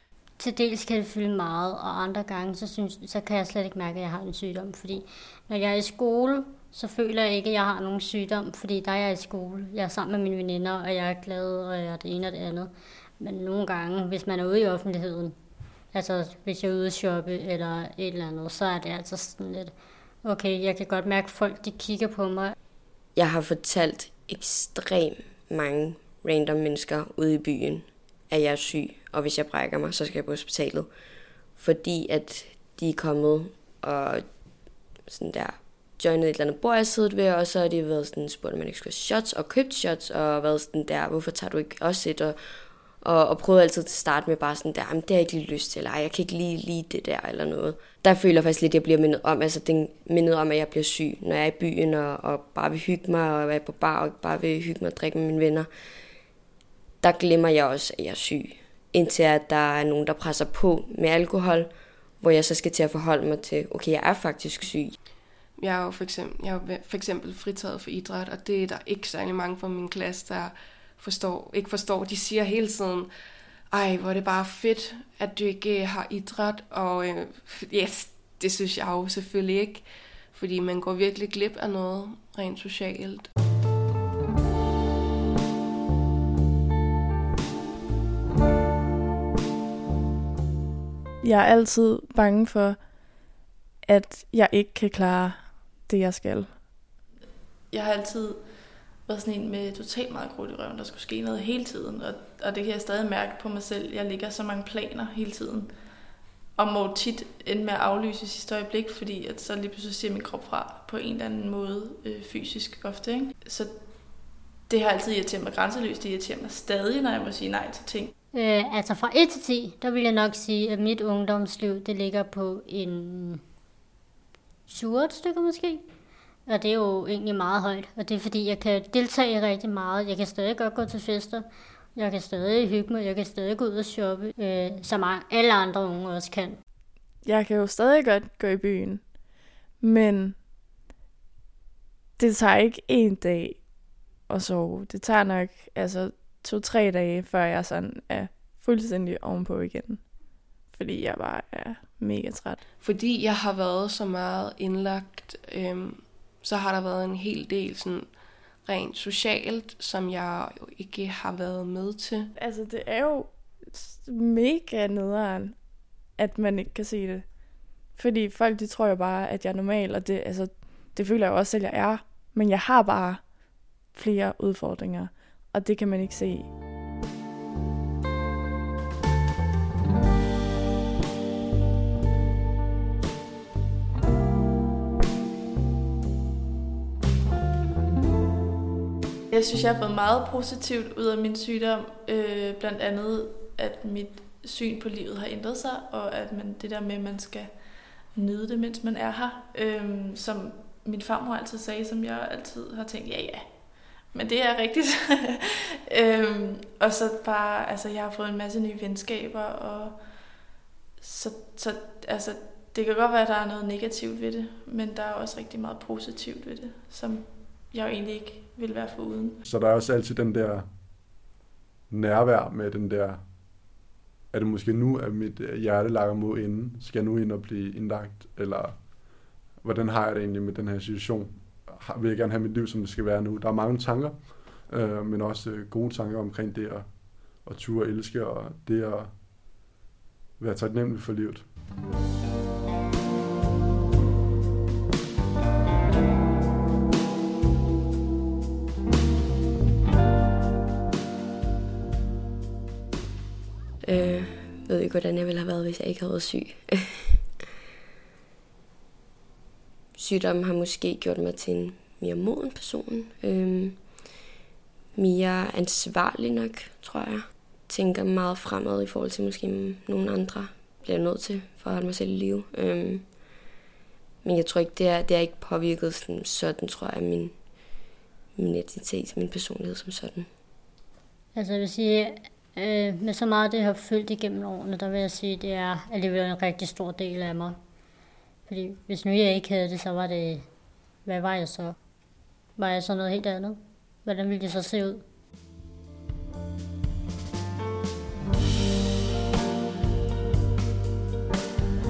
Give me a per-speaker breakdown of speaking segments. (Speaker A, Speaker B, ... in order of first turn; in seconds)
Speaker A: 0.4-15.4, 15.9-22.6, 118.3-123.4, 124.7-125.8, 126.5-136.6, 281.3-287.6, 288.5-290.5, 291.1-291.8, 292.6-295.1
Speaker B: 23.1-55.7, 57.0-65.0, 253.8-257.3, 260.0-264.1, 264.9-273.4, 274.2-280.3
Speaker C: 65.6-73.1, 73.7-83.3, 152.8-162.3
Speaker D: 91.2-96.6, 137.2-140.4, 142.2-152.6, 162.4-176.5
Speaker E: 97.7-118.1, 189.3-210.4, 211.0-219.4
Speaker F: 219.4-220.8, 221.9-223.7, 224.3-239.4, 240.4-241.5